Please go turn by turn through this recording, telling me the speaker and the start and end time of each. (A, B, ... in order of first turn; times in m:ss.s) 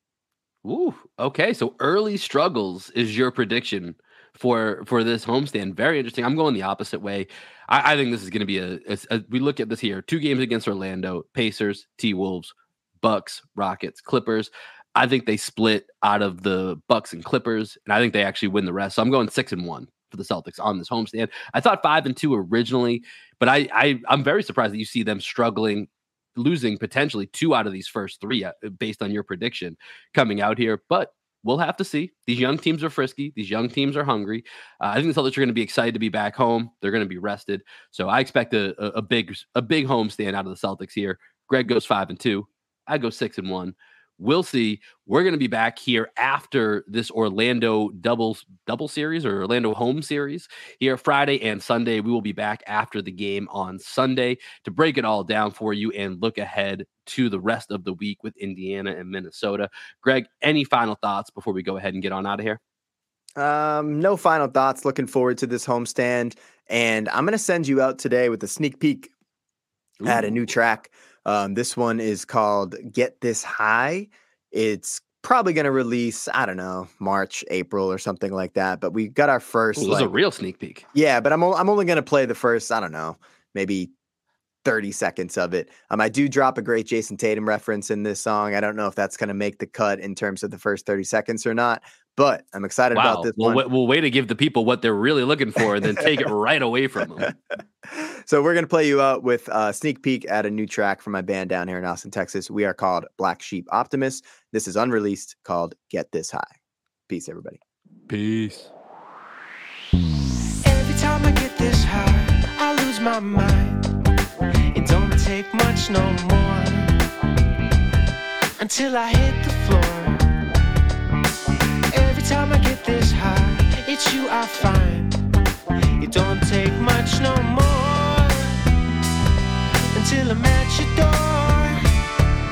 0:00.6-1:02.6 A
1:03.4-1:09.1 B
1:10.0-1:10.3 A
1:10.0-1:20.1 B
1:19.8-1:20.8 A
1:20.9-1:23.9 B
1:24.6-1:33.6 B
1:32.9-1:37.3 A
1:37.9-1:46.6 B
1:47.1-1:47.6 B
1:48.1-1:48.7 A
1:50.6-1:53.8 C
1:54.7-1:57.0 C
1:58.6-2:00.3 C
2:01.9-2:05.1 C
2:06.0-2:08.5 C
2:09.9-2:11.8 C